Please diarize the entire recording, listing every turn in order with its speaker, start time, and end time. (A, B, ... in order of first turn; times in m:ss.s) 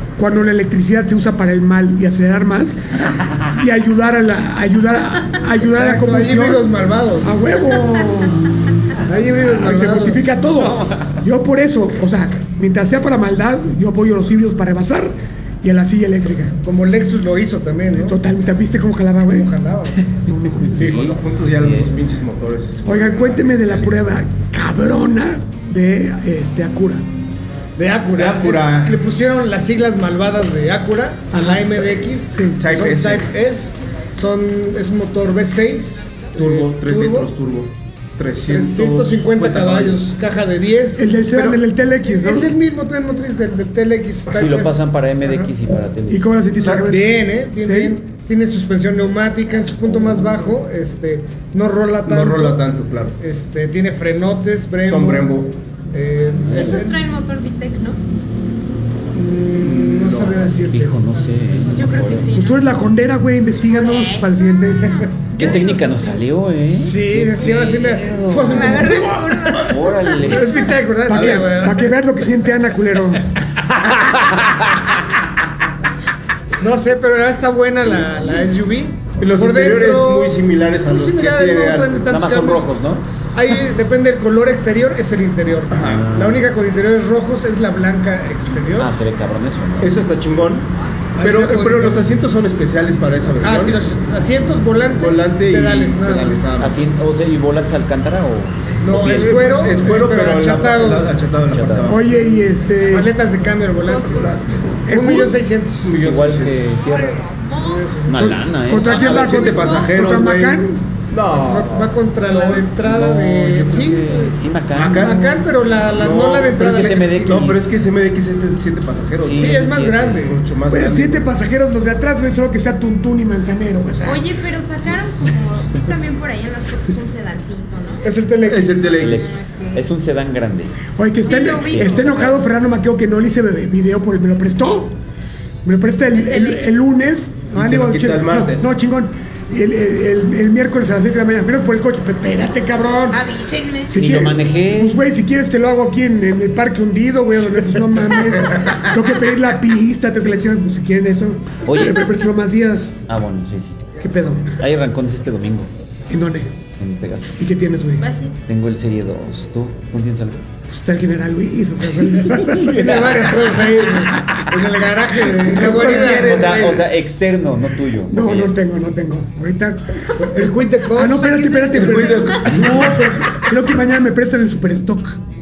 0:00.2-0:02.8 A
0:03.5-0:06.7 A
0:05.6-0:07.4 B
0:07.2-0:08.4 A
0:09.0-0:10.2 B
0:09.2-0:16.6 A
0:10.6-0:11.2 C
0:16.6-0:18.2 B
0:17.9-0:19.5 A
0:19.3-0:20.0 B
0:20.2-0:21.0 A
0:20.6-0:21.9 C
0:20.8-0:24.0 D
0:22.8-0:27.0 A
0:27.8-0:37.3 B
0:28.1-0:29.0 D
0:31.3-0:31.6 A
0:32.2-0:32.6 A
0:32.6-0:33.3 D
0:36.4-0:40.0 D
0:38.5-0:41.5 B
0:41.0-0:42.5 A
0:42.0-0:45.5 B
0:44.3-0:46.2 C
0:46.1-0:48.0 A
0:46.7-0:52.6 B
0:52.1-0:53.2 D
0:53.2-0:55.4 B
0:54.8-0:55.5 D
0:55.9-0:57.0 B
0:56.5-0:56.8 C
0:56.5-0:58.0 E
0:59.1-1:01.0 B
0:59.6-1:00.5 D
1:00.7-1:02.3 C
1:01.7-1:02.7 E
1:02.3-1:05.1 A
1:03.6-1:06.2 E
1:05.3-1:09.0 C
1:06.7-1:09.6 B
1:08.4-1:10.6 E
1:09.6-1:10.8 C
1:10.2-1:11.9 B
1:11.1-1:13.3 A
1:11.1-1:11.5 D
1:13.9-1:15.0 C
1:16.6-1:22.7 B
1:19.2-1:22.1 D
1:22.1-1:23.0 C
1:23.3-1:28.9 B
1:25.7-1:26.1 D
1:25.8-1:26.4 C
1:28.8-1:30.0 C
1:29.8-1:30.7 D
1:31.2-1:32.0 B
1:31.2-1:33.8 D
1:33.4-1:36.4 B
1:35.0-1:36.8 D
1:36.6-1:39.5 C
1:38.8-1:41.2 B
1:38.9-1:42.2 D
1:41.5-1:42.0 C
1:41.9-1:43.1 A
1:42.8-1:45.9 B
1:43.8-1:44.4 E
1:44.8-1:45.4 A
1:45.8-1:46.7 D
1:46.0-1:47.2 C
1:47.5-1:48.4 B
1:48.1-1:49.7 C
1:48.2-1:50.8 A
1:48.8-1:52.6 D
1:49.6-1:49.9 E
1:51.3-1:54.0 B
1:52.8-1:55.3 C
1:54.7-1:59.6 D
1:54.9-1:57.4 B
1:56.6-1:57.8 C
1:59.2-2:00.2 C
1:59.3-2:00.4 B
2:00.2-2:01.3 D
2:00.7-2:04.3 A
2:04.0-2:08.1 E
2:08.0-2:09.0 B
2:08.4-2:09.4 D
2:09.0-2:10.8 C
2:09.2-2:09.8 E
2:11.0-2:15.0 A
2:11.2-2:12.0 E
2:11.6-2:12.4 C
2:15.6-2:23.2 A
2:16.2-2:16.6 E
2:17.5-2:18.7 D
2:23.1-2:23.9 E
2:23.9-2:33.0 A
2:23.9-2:25.0 C
2:31.6-2:32.1 C
2:33.1-2:33.8 C
2:34.0-2:34.6 A
2:34.6-2:35.7 C
2:36.1-2:36.5 A
2:36.8-2:37.4 C
2:37.4-2:38.1 A
2:38.0-2:38.3 E
2:38.4-2:40.4 C
2:40.7-2:44.4 A
2:42.5-2:46.6 B
2:45.5-2:46.9 D
2:45.6-2:48.5 C
2:48.1-2:55.2 A
2:50.2-2:52.0 B
2:51.3-2:52.4 E
2:51.7-2:53.2 D